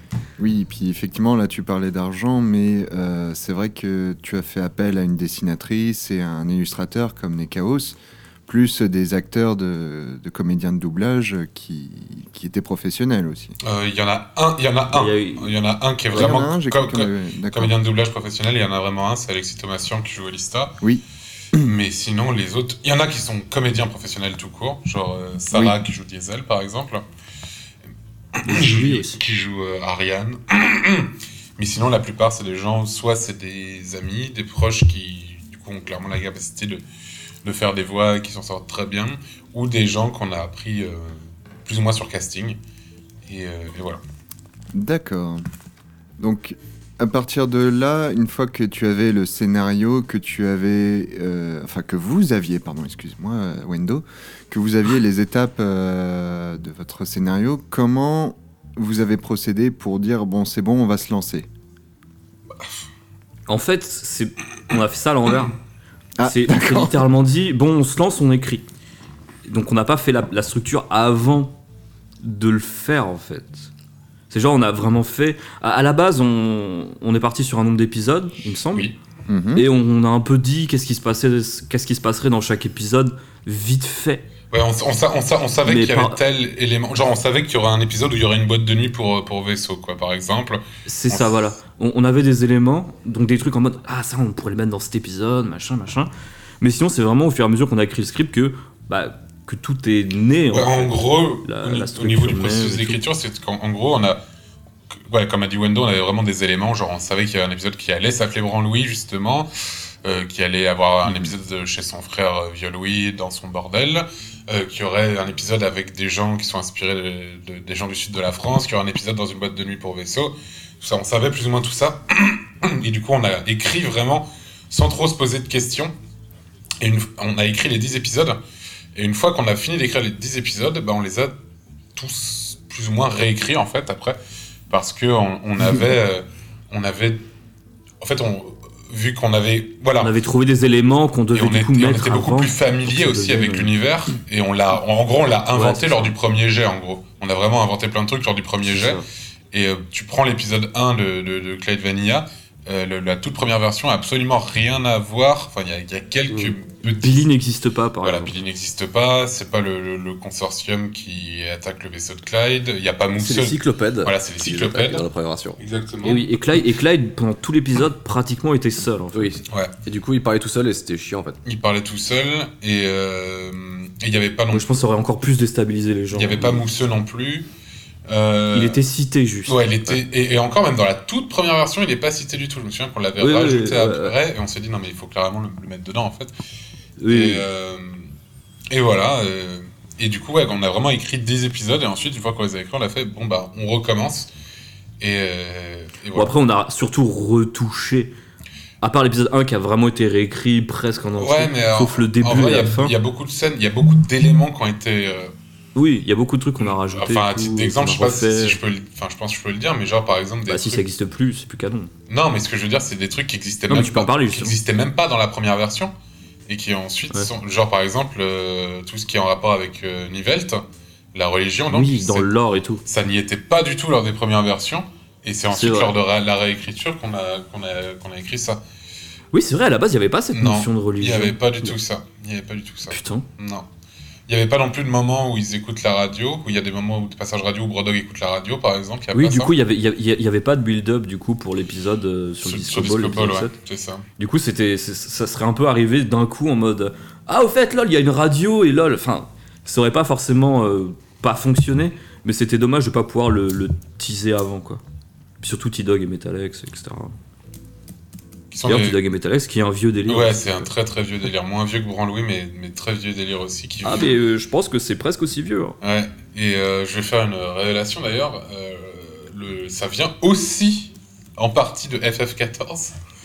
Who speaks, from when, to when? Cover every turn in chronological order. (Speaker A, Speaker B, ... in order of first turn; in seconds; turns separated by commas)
Speaker A: 0.4-13.6, Speaker B: 13.6-20.8, Speaker C: 14.9-15.5, Speaker A: 16.1-17.7, Speaker A: 20.8-21.7, Speaker B: 21.5-27.0, Speaker A: 25.5-25.8, Speaker B: 28.4-36.8, Speaker C: 28.4-29.2, Speaker B: 37.4-42.6, Speaker B: 43.2-44.0, Speaker A: 44.7-45.4, Speaker A: 46.2-61.5, Speaker C: 63.5-65.5, Speaker A: 66.2-67.0, Speaker C: 66.2-68.7, Speaker C: 69.5-71.6, Speaker C: 72.2-73.7, Speaker C: 74.3-78.9, Speaker A: 79.3-79.7, Speaker C: 79.5-84.3, Speaker B: 84.5-91.5, Speaker C: 85.6-86.2, Speaker C: 90.8-96.1, Speaker C: 96.6-103.0, Speaker B: 100.5-104.2, Speaker B: 105.0-109.5, Speaker B: 110.0-125.9, Speaker A: 111.0-111.3, Speaker B: 126.8-128.4, Speaker B: 128.9-131.3, Speaker B: 131.9-134.2, Speaker B: 134.7-137.2, Speaker B: 138.0-140.1, Speaker C: 140.0-143.7, Speaker B: 141.3-157.3, Speaker C: 145.5-146.1, Speaker C: 148.7-149.0, Speaker C: 156.8-158.3, Speaker B: 158.0-165.1, Speaker D: 163.2-165.6, Speaker B: 165.6-166.2, Speaker C: 166.0-169.4, Speaker D: 169.1-171.4, Speaker B: 171.4-174.7, Speaker C: 174.5-176.6, Speaker B: 176.1-177.5, Speaker B: 178.1-178.8, Speaker C: 178.5-179.6, Speaker B: 179.4-186.3, Speaker C: 183.2-184.1, Speaker C: 187.0-187.4, Speaker B: 187.1-188.1, Speaker B: 188.7-194.3, Speaker B: 195.0-196.3, Speaker C: 196.1-198.1, Speaker C: 198.8-202.9, Speaker B: 201.2-205.3, Speaker C: 205.7-208.6, Speaker B: 206.6-210.8, Speaker C: 210.5-211.9, Speaker B: 212.1-215.9, Speaker C: 213.7-214.6, Speaker B: 216.5-222.3, Speaker C: 221.7-222.8, Speaker B: 222.8-228.6, Speaker C: 225.5-225.9, Speaker C: 229.3-231.8, Speaker B: 230.3-233.7, Speaker C: 232.9-233.2, Speaker B: 234.3-239.5, Speaker C: 239.1-243.6, Speaker B: 242.4-244.0, Speaker C: 244.2-254.8, Speaker C: 255.4-257.1, Speaker B: 258.5-259.0, Speaker C: 258.6-260.7, Speaker B: 260.1-264.1, Speaker C: 263.8-265.8, Speaker B: 265.8-272.9